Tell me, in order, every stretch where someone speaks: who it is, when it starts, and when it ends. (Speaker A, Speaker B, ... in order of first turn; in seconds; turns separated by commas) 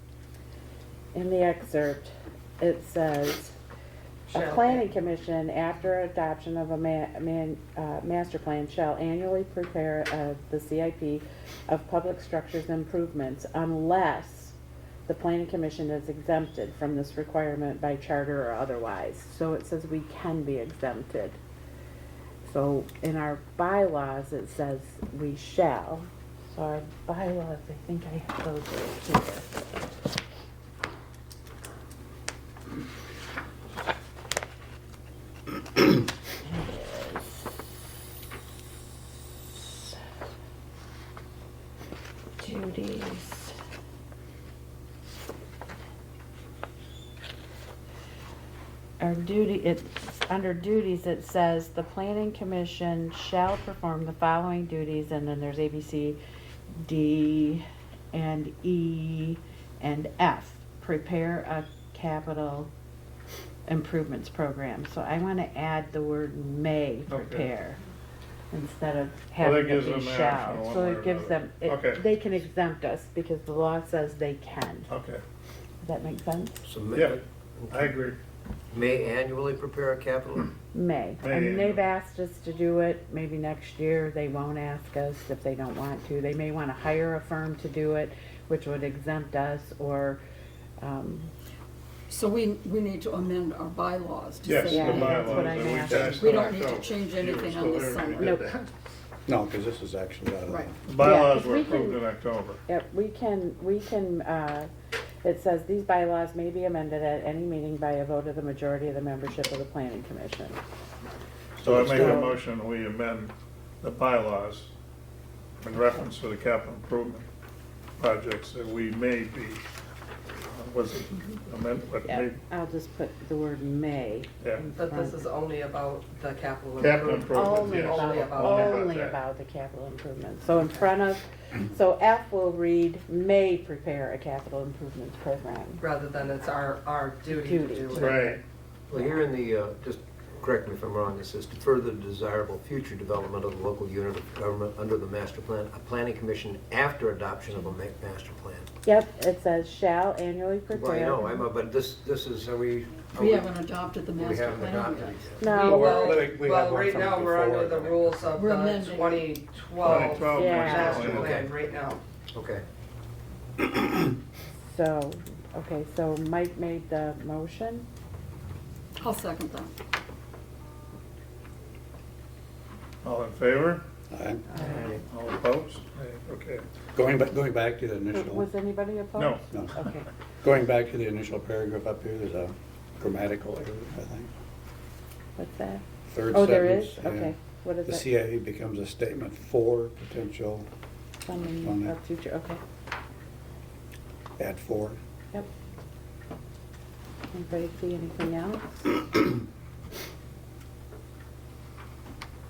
Speaker A: 1.1-3.6, Speaker B: 4.3-4.9, Speaker A: 4.3-14.6, Speaker A: 15.1-21.4, Speaker A: 22.4-29.6, Speaker A: 36.4-37.5, Speaker A: 42.4-43.5, Speaker A: 49.0-56.2, Speaker A: 56.8-62.7, Speaker A: 63.7-67.8, Speaker C: 67.1-67.5, Speaker A: 68.5-74.9, Speaker C: 69.4-72.0, Speaker C: 74.9-75.2, Speaker A: 75.8-76.7, Speaker D: 76.7-78.0, Speaker C: 76.9-78.2, Speaker D: 78.7-80.5, Speaker A: 80.7-90.2, Speaker C: 81.2-81.8, Speaker A: 90.8-91.3, Speaker E: 92.1-98.4, Speaker C: 94.4-98.7, Speaker A: 94.7-96.6, Speaker A: 98.2-98.4, Speaker F: 99.3-100.8, Speaker C: 100.9-102.6, Speaker A: 101.0-102.0, Speaker A: 102.7-104.7, Speaker A: 105.2-110.6, Speaker C: 111.6-114.7, Speaker F: 111.6-112.3, Speaker A: 111.8-112.3, Speaker C: 115.6-117.2, Speaker C: 118.0-119.6, Speaker C: 120.4-122.4, Speaker A: 122.1-125.2, Speaker B: 124.7-128.9, Speaker C: 126.8-129.2, Speaker A: 127.3-135.8, Speaker B: 135.8-138.4, Speaker A: 137.3-138.3, Speaker C: 137.9-138.4, Speaker D: 138.9-148.7, Speaker A: 148.8-151.5, Speaker D: 150.7-153.5, Speaker E: 153.1-155.3, Speaker D: 154.2-155.6, Speaker A: 155.4-156.3, Speaker B: 155.5-162.0, Speaker F: 155.5-158.3, Speaker E: 158.4-159.3, Speaker C: 159.8-161.4, Speaker D: 160.1-161.5, Speaker A: 160.3-161.2, Speaker D: 162.3-162.6, Speaker A: 164.7-167.9, Speaker E: 169.0-169.7, Speaker C: 173.0-173.8, Speaker F: 174.1-174.5, Speaker A: 174.5-175.0, Speaker C: 174.6-176.7, Speaker F: 176.9-178.5, Speaker A: 178.1-180.1, Speaker C: 179.2-179.4, Speaker F: 180.4-184.3, Speaker A: 185.4-188.1, Speaker F: 186.1-190.7, Speaker A: 191.2-192.6, Speaker F: 191.6-191.9, Speaker F: 194.4-195.0, Speaker A: 197.3-199.0